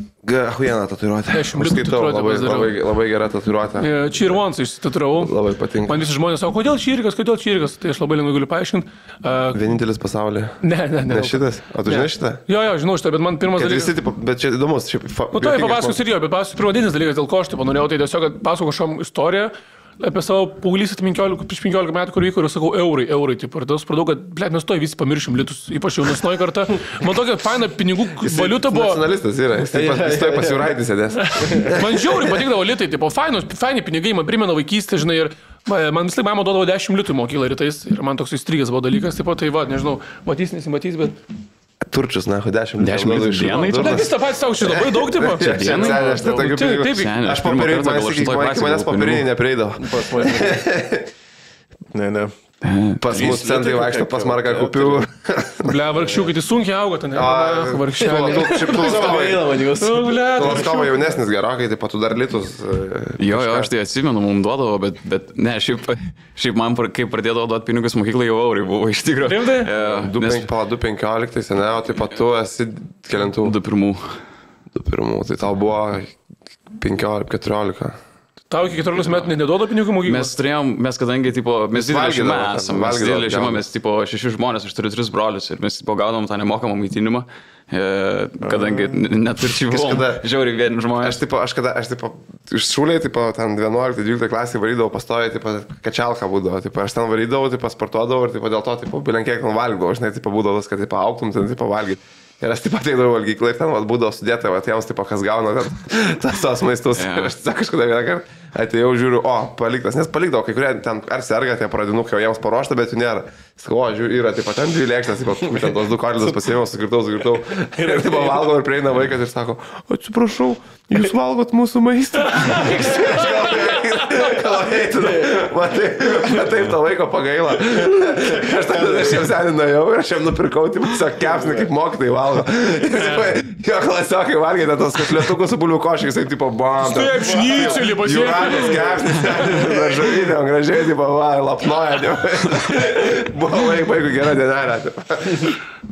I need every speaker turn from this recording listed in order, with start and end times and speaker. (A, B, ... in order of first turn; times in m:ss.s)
0:00.2-0:04.4 A
0:01.3-0:02.8 B
0:03.8-0:09.6 B
0:05.1-0:06.0 A
0:09.5-0:12.4 A
0:10.6-0:13.9 B
0:13.6-0:16.0 A
0:15.3-0:29.0 B
0:28.2-0:32.1 A
0:29.7-0:30.7 C
0:31.2-0:41.2 B
0:41.8-0:51.1 A
0:42.8-0:44.1 D
0:43.5-0:47.1 B
0:45.4-0:49.2 D
0:49.8-0:50.6 C
0:51.9-0:52.3 C
0:52.6-0:53.0 D
0:53.0-0:56.3 A
0:53.1-0:55.0 C
0:55.6-1:01.1 B
0:57.1-0:59.5 A
0:58.0-1:00.6 C
1:00.3-1:03.7 A
1:03.2-1:10.5 D
1:09.2-1:09.7 B
1:09.7-1:13.5 A
1:13.4-1:14.2 D
1:14.7-1:16.2 A
1:16.8-1:18.0 A
1:18.5-1:20.3 B
1:19.0-1:19.3 D
1:20.0-1:31.2 D
1:21.7-1:23.6 A
1:29.6-1:30.2 A
1:31.0-2:25.6 A
1:46.9-1:47.3 D
2:02.3-2:03.8 B
2:08.5-2:09.1 C
2:16.8-2:19.7 B